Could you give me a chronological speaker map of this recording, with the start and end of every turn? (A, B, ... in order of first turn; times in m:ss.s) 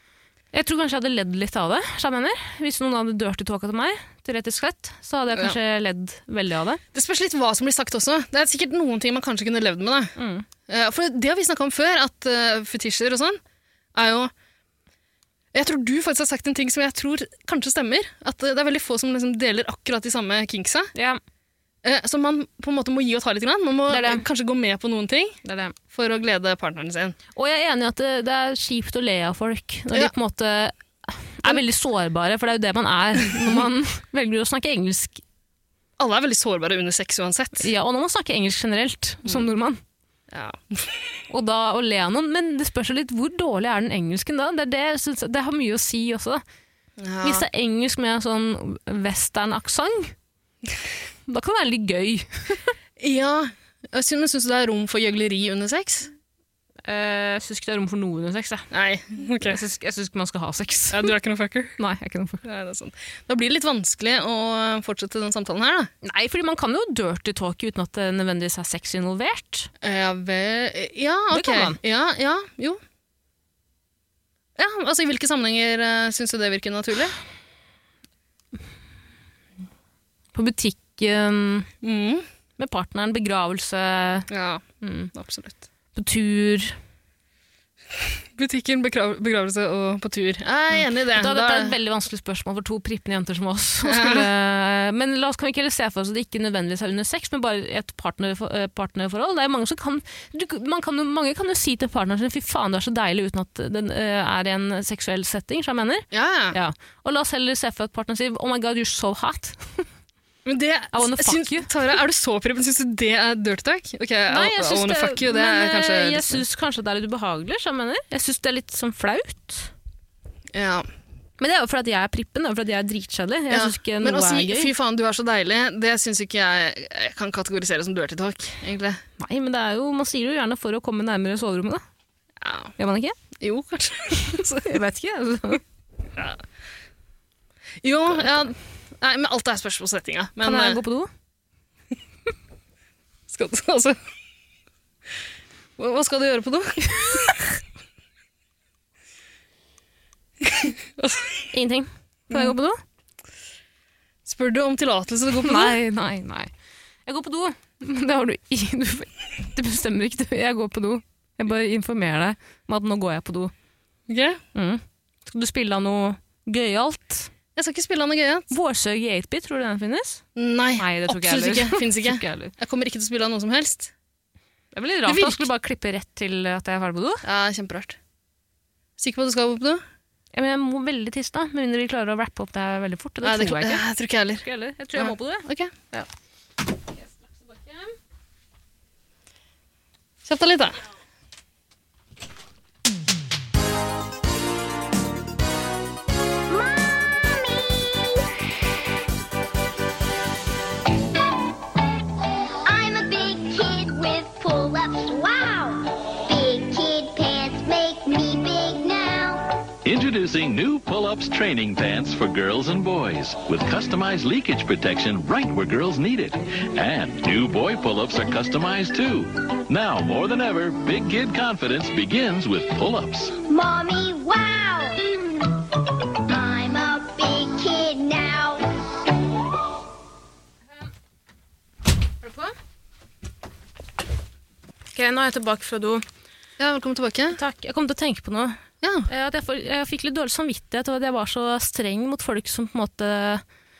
0:00.5-0:06.8 A
0:06.9-0:10.2 B
0:10.2-0:10.5 A
0:10.7-0:13.4 B
0:14.0-0:14.3 B
0:15.5-0:20.9 B
0:21.0-0:21.2 A
0:21.8-0:25.4 B
0:23.9-0:24.2 A
0:25.4-0:25.8 A
0:25.9-0:27.2 B
0:27.4-0:35.2 A
0:36.0-0:37.7 B
0:37.6-0:39.8 A
0:40.3-0:41.0 B
0:41.3-0:46.4 A
0:47.0-0:47.4 B
0:47.2-0:50.1 A
0:51.3-0:52.7 A
0:53.0-0:56.1 B
0:56.9-0:58.7 A
0:58.7-0:59.6 B
0:59.4-1:01.1 A
1:00.9-1:01.8 B
1:01.8-1:02.4 A
1:02.4-1:05.9 B
1:06.0-1:09.7 A
1:09.8-1:12.8 B
1:11.3-1:11.8 A
1:14.6-1:17.2 B
1:20.3-1:21.7 A
1:21.8-1:22.3 B
1:22.6-1:24.3 A
1:24.3-1:25.6 B
1:24.8-1:25.1 A
1:25.9-1:26.8 A
1:28.4-1:31.7 B
1:30.7-1:49.9 A
1:33.8-1:34.3 B
1:46.1-1:46.6 B
1:50.4-1:56.4 B
1:50.9-1:51.7 A
1:54.3-1:59.7 A
2:00.5-2:00.9 B
2:01.4-2:04.7 A
2:03.5-2:09.0 B
2:09.2-2:11.8 A
2:12.4-2:12.7 B
2:12.8-2:13.2 A
2:13.4-2:14.8 B
2:14.2-2:15.6 A
2:16.2-2:16.4 B
2:17.8-2:20.8 B
2:20.4-2:21.1 A
2:23.3-2:24.0 B
2:25.8-2:27.5 B
2:30.4-2:31.5 B
2:31.5-2:32.8 A
2:34.3-2:35.8 B
2:35.4-2:36.5 A
2:37.1-2:43.5 A
2:44.1-2:44.4 B
2:44.6-2:47.3 A
2:47.6-2:48.5 B
2:48.5-2:50.2 A
2:50.4-2:53.9 B
2:50.8-2:52.5 A
2:54.7-2:57.2 A
2:55.1-2:55.4 B
2:57.2-2:58.0 B
2:59.0-2:59.8 B
3:00.3-3:03.8 A
3:03.2-3:05.7 B
3:04.4-3:06.1 A
3:06.9-3:08.0 A
3:10.2-3:10.8 B
3:16.5-3:18.3 C
3:22.6-3:29.7 C
3:29.8-3:43.4 D
3:43.5-3:48.8 C
3:52.2-3:52.6 A
3:54.9-3:56.0 A
3:56.6-3:57.4 B
3:57.3-4:03.4 A
3:58.8-3:59.1 B